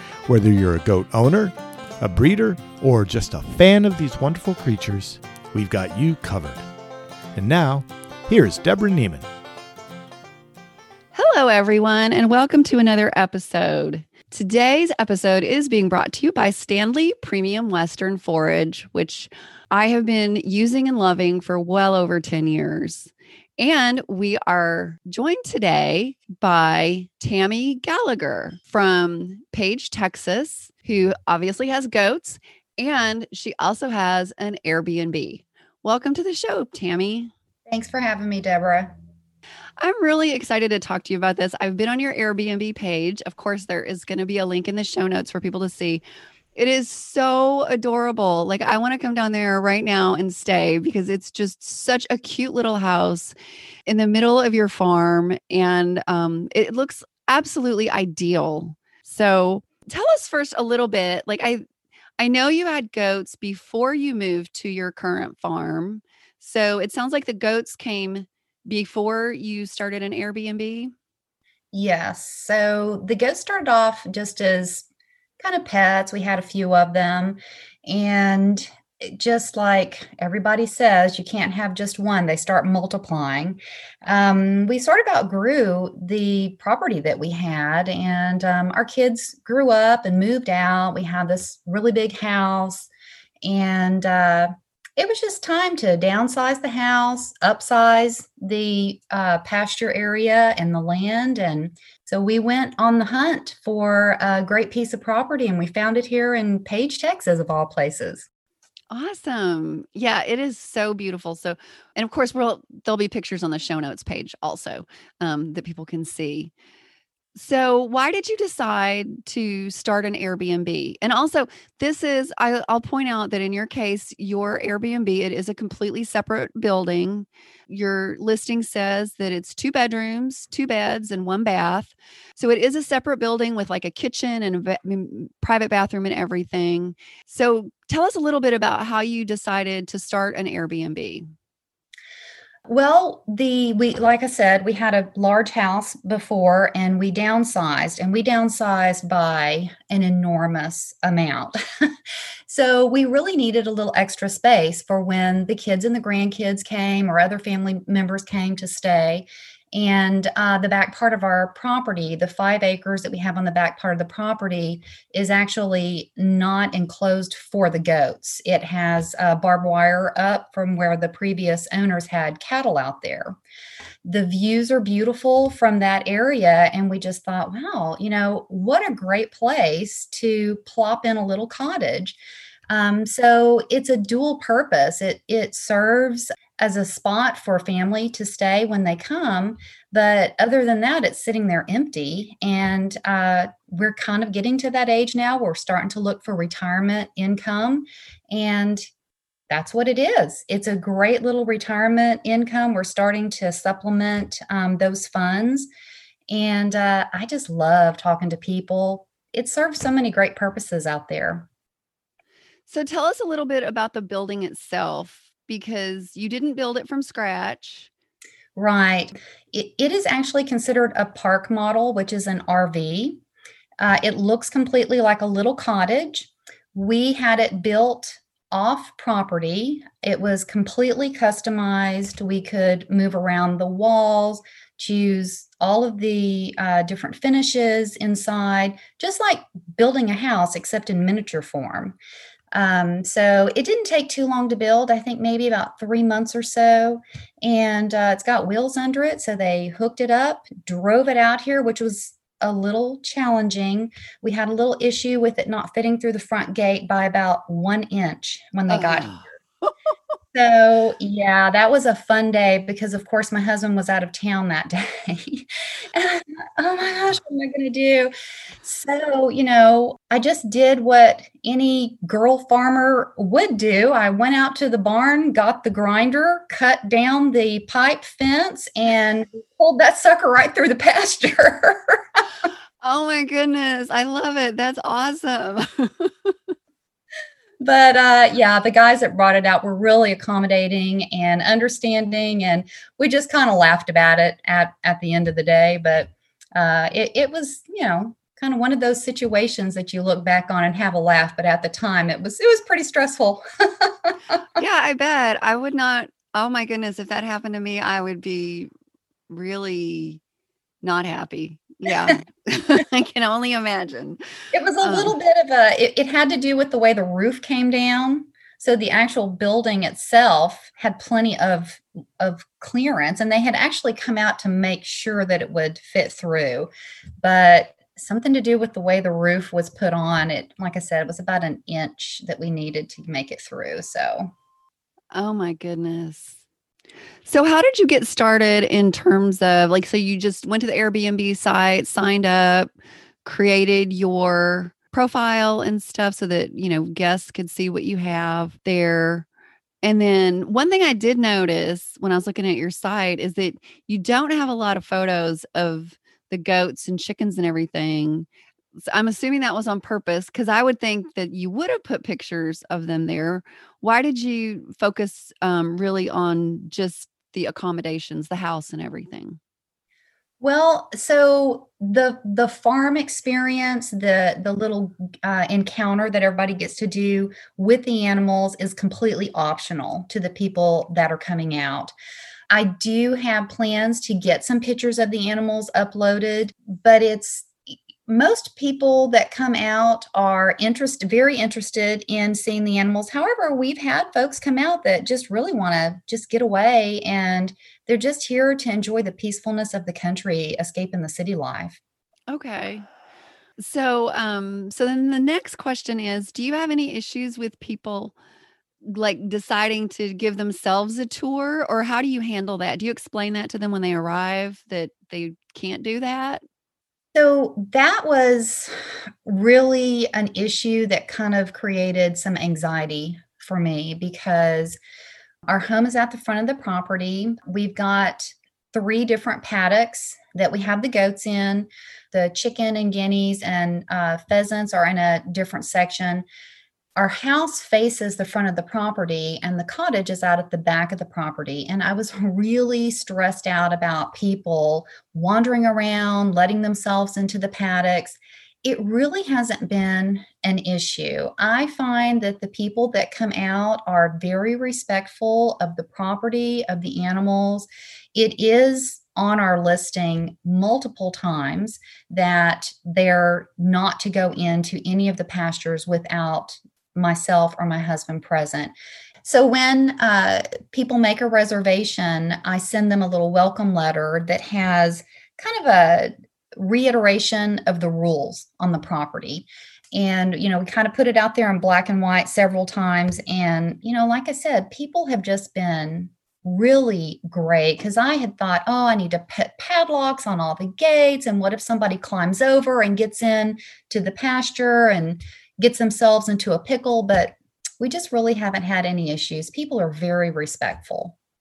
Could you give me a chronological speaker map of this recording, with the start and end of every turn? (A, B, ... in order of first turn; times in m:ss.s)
0:00.2-0:06.6 A
0:07.4-0:09.2 A
0:11.1-0:37.3 B
0:37.7-0:38.9 C
0:39.8-0:46.0 B
0:46.6-0:53.3 B
0:53.9-1:01.6 B
1:02.2-1:10.9 B
1:11.7-1:14.8 C
1:15.4-1:32.9 C
1:33.4-1:48.3 C
1:48.9-1:56.5 B
1:57.3-2:21.2 B
2:22.7-2:31.9 C
2:32.5-2:53.4 C
2:54.0-3:02.2 C
3:02.7-3:18.8 C
3:19.5-3:25.7 C
3:26.3-3:31.5 C
3:32.7-3:37.9 B
3:38.6-3:43.2 C
3:43.8-4:02.0 C
4:02.5-4:19.2 C
4:18.7-4:19.7 B
4:20.3-4:42.2 C
4:42.8-4:46.4 B
4:47.6-5:04.4 C
5:04.6-5:08.7 B
5:09.3-5:10.2 B
5:10.8-5:14.2 B
5:14.5-5:34.3 C
5:14.8-5:15.1 B
5:35.1-5:36.4 B
5:37.2-5:42.7 B
5:43.2-5:49.3 B
5:49.8-5:58.3 B
5:58.9-6:09.4 B
6:10.4-6:21.9 C
6:22.5-6:27.5 C
6:28.1-6:41.8 C
6:42.3-6:42.9 B
6:43.6-6:48.2 B
6:48.8-6:56.4 B
6:57.2-7:04.8 C
7:05.5-7:16.3 C
7:17.0-8:21.2 C